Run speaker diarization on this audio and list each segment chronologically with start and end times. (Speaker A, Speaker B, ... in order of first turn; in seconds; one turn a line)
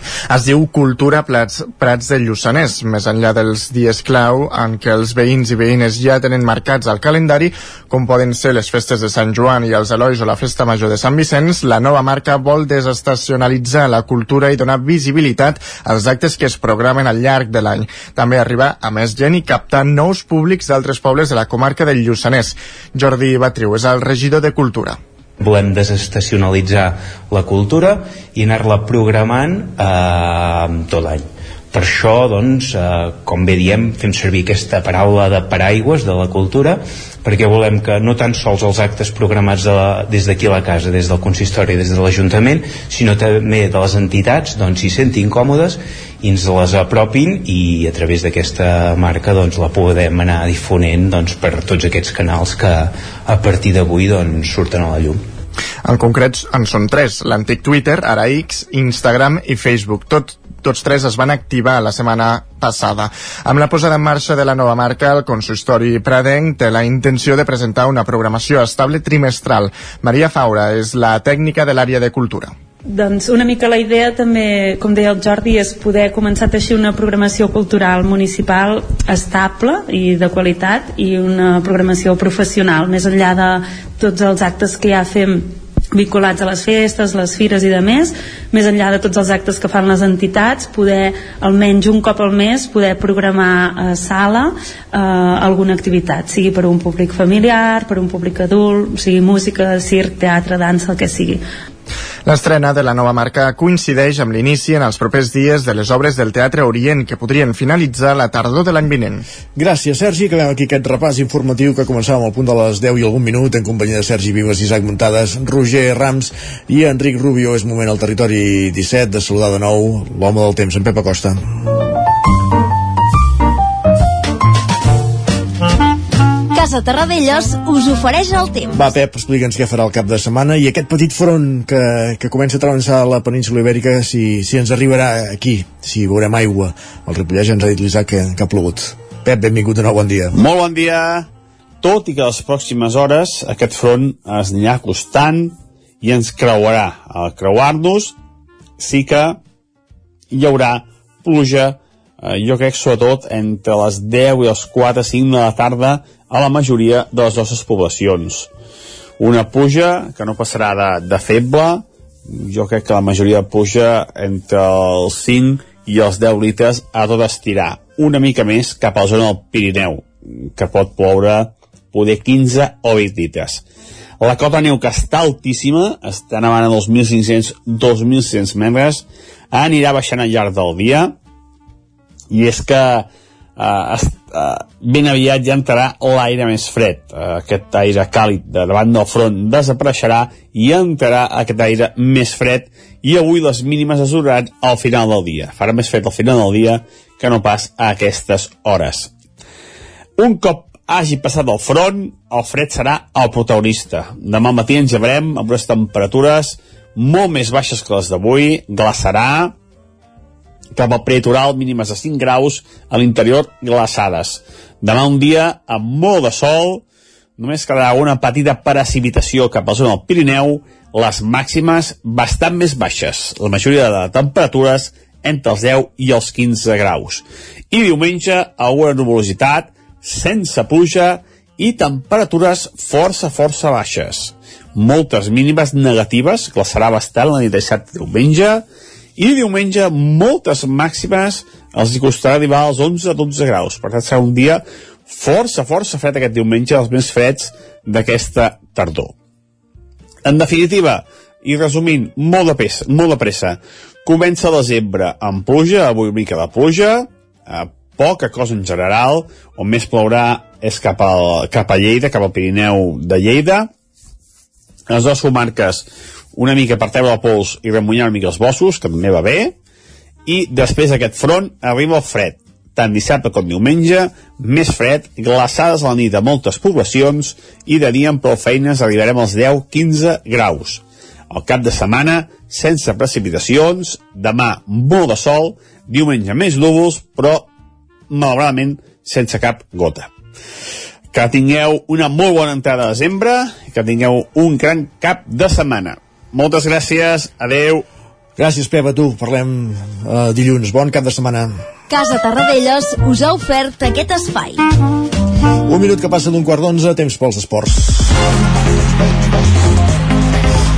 Speaker A: 0.3-25.0
Speaker B: 25.4-55.2
Speaker A: 55.8-72.5
Speaker C: 72.9-101.4
Speaker A: 102.2-109.2
Speaker D: 109.5-121.4
Speaker E: 126.5-128.8
Speaker D: 128.7-140.4
Speaker F: 140.3-141.3
Speaker F: 141.8-148.1
Speaker F: 148.8-149.4
Speaker F: 150.3-158.5
Speaker F: 159.2-173.6
Speaker F: 174.2-181.1
Speaker F: 182.3-199.1
Speaker F: 200.2-209.5
Speaker F: 210.7-216.8
Speaker F: 217.4-238.6
Speaker F: 239.2-249.1
Speaker F: 250.2-263.7
Speaker F: 264.9-269.5
Speaker F: 270.2-287.5
Speaker F: 288.1-290.1
Speaker F: 291.1-297.8
Speaker D: 298.4-301.5
Speaker E: 301.9-304.6
Speaker D: 305.7-308.1